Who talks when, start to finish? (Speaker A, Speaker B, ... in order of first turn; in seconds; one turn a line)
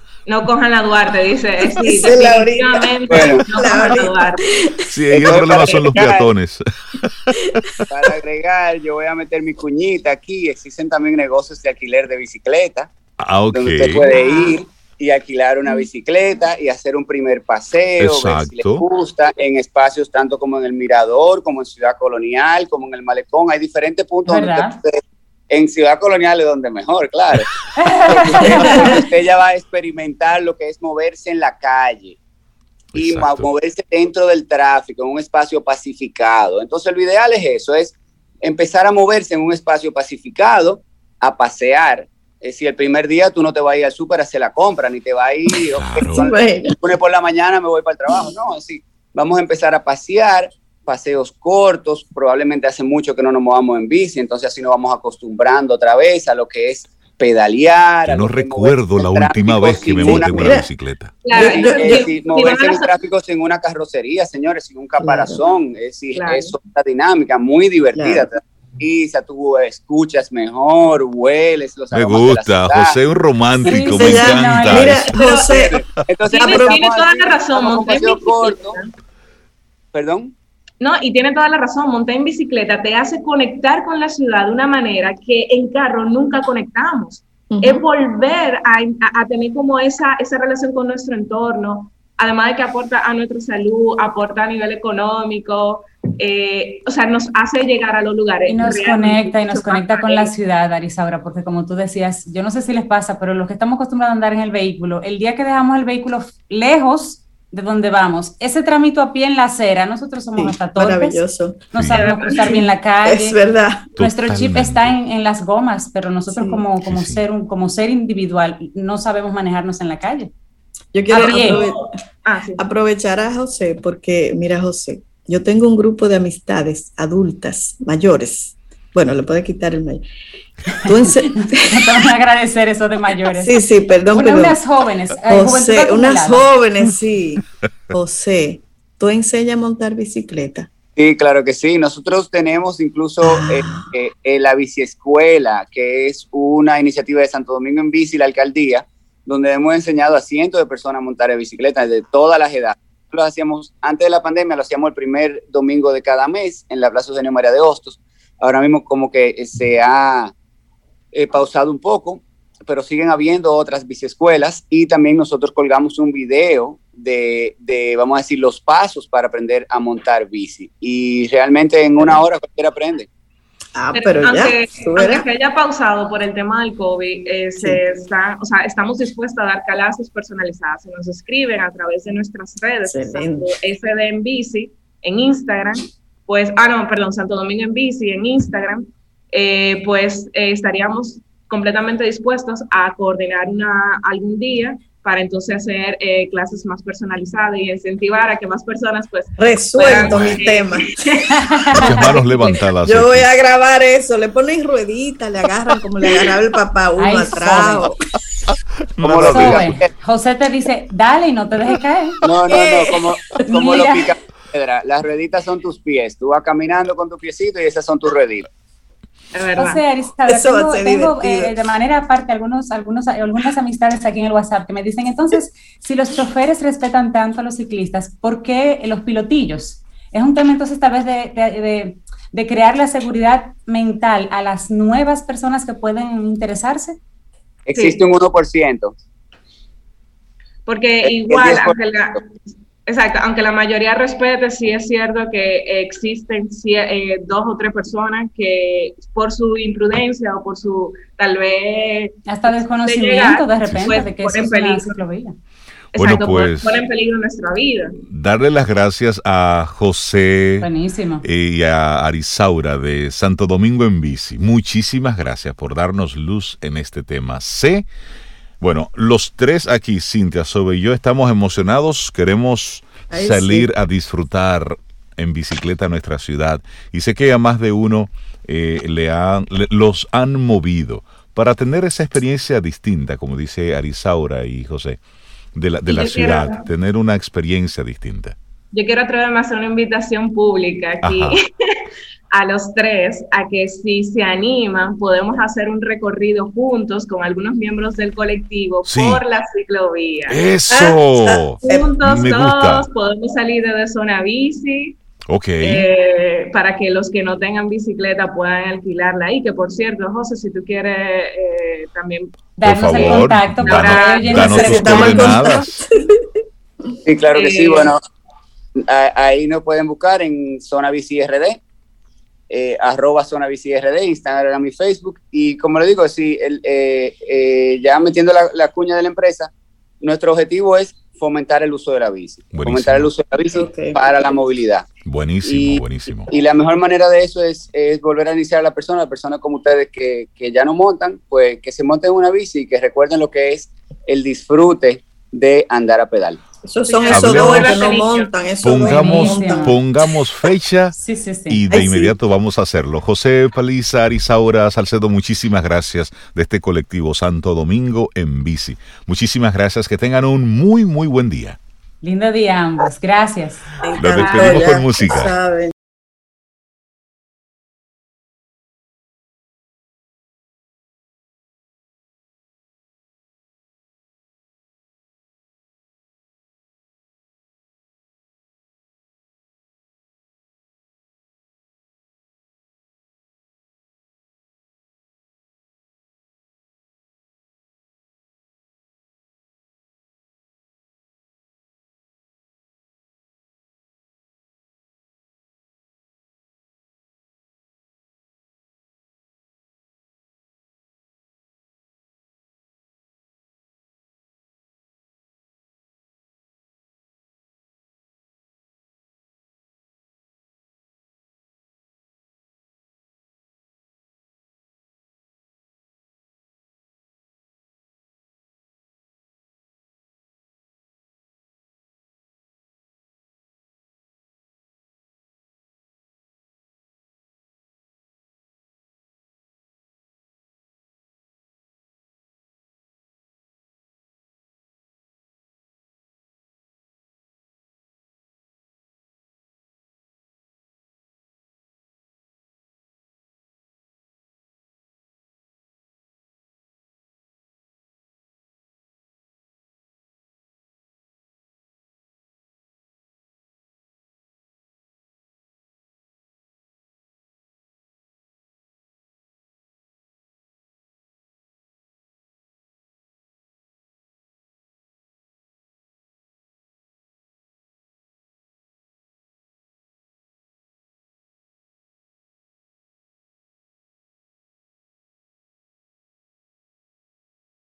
Speaker A: 0.2-4.5
Speaker B: 1.6-5.4
Speaker C: 3.1-3.4
Speaker D: 4.9-7.8
Speaker C: 5.2-6.3
Speaker C: 7.9-12.9
Speaker D: 13.2-14.0
Speaker C: 13.5-27.5
Speaker D: 18.0-18.8
Speaker E: 24.2-24.8
Speaker E: 27.8-29.0
Speaker C: 28.1-32.2
Speaker B: 28.3-29.0
Speaker D: 32.9-33.5
Speaker C: 32.9-60.5
Speaker D: 45.8-46.3
Speaker B: 46.0-46.8
Speaker D: 58.0-61.2
Speaker B: 60.0-60.7
Speaker A: 61.2-63.0
Speaker B: 61.3-62.1
Speaker C: 61.4-73.0
Speaker B: 65.0-65.4
Speaker A: 66.1-66.5
Speaker B: 67.9-68.3
Speaker D: 71.9-75.0
Speaker E: 73.6-75.1
Speaker B: 73.7-76.8
Speaker A: 75.0-75.7
Speaker C: 75.4-78.8
Speaker A: 76.3-78.7
Speaker C: 79.9-80.3
Speaker A: 80.8-100.3
Speaker B: 87.5-87.8
Speaker E: 98.5-113.4
Speaker B: 110.3-111.6
Speaker D: 111.8-112.1
Speaker A: 111.9-112.5
Speaker B: 112.3-113.9
Speaker E: 113.9-120.3
Speaker D: 114.0-114.9
Speaker B: 116.3-116.6
Speaker D: 116.8-117.2
Speaker B: 120.9-121.8
Speaker E: 121.1-121.6
Speaker A: 121.1-122.6
Speaker B: 122.6-130.0
Speaker B: 130.8-131.9
Speaker E: 131.0-136.5
Speaker B: 133.3-134.6
Speaker B: 135.3-140.7
Speaker C: 140.9-160.3
Speaker B: 143.2-143.8
Speaker C: 161.1-173.1
Speaker B: 173.7-175.2
Speaker A: 173.9-201.0
Speaker B: 182.8-183.5
Speaker B: 199.4-201.0
Speaker D: 199.9-200.2
Speaker E: 201.3-202.2
Speaker D: 201.7-203.3
Speaker B: 201.8-207.9
Speaker E: 207.0-207.9
Speaker D: 209.0-209.7
Speaker C: 209.0-209.9
Speaker E: 209.3-212.2
Speaker C: 212.2-218.5
Speaker E: 213.5-214.1
Speaker A: 219.3-219.8
Speaker E: 219.6-237.0
Speaker B: 220.3-221.5
Speaker C: 237.7-238.9
Speaker A: 237.7-238.0
Speaker A: 240.7-242.2
Speaker C: 241.0-241.8
Speaker A: 242.8-255.0
Speaker E: 252.2-255.3
Speaker D: 253.7-254.1
Speaker A: 255.9-258.0
Speaker D: 255.9-256.8
Speaker D: 258.1-260.7
Speaker E: 260.6-261.2
Speaker D: 261.2-267.9
Speaker D: 268.6-285.0
Speaker B: 273.1-273.7
Speaker D: 285.5-288.4
Speaker A: 285.9-286.7
Speaker A: 288.7-291.4
Speaker D: 291.0-291.4
Speaker A: 292.3-300.4
Speaker D: 298.8-299.2
Speaker D: 300.3-302.9
Speaker B: 300.7-302.0
Speaker A: 301.6-305.0
Speaker D: 305.3-305.9
Speaker A: 305.6-315.3
Speaker E: 312.6-315.3
Speaker D: 312.6-315.8
Speaker B: 314.5-316.2
Speaker C: 317.1-318.0
Speaker A: 317.3-317.9
Speaker C: 318.8-321.6
Speaker C: 322.5-334.9
Speaker D: 332.5-333.1
Speaker B: 333.5-334.0
Speaker D: 335.0-336.3
Speaker C: 335.4-346.4
Speaker B: 346.6-349.8
Speaker A: 346.9-348.3
Speaker D: 347.1-347.8
Speaker D: 348.6-350.9
Speaker E: 348.8-349.8
Speaker E: 350.9-351.6
Speaker D: 351.5-361.6
Speaker B: 351.7-352.1
Speaker E: 362.0-363.6
Speaker B: 363.8-365.7
Speaker D: 364.0-365.3
Speaker E: 364.2-364.5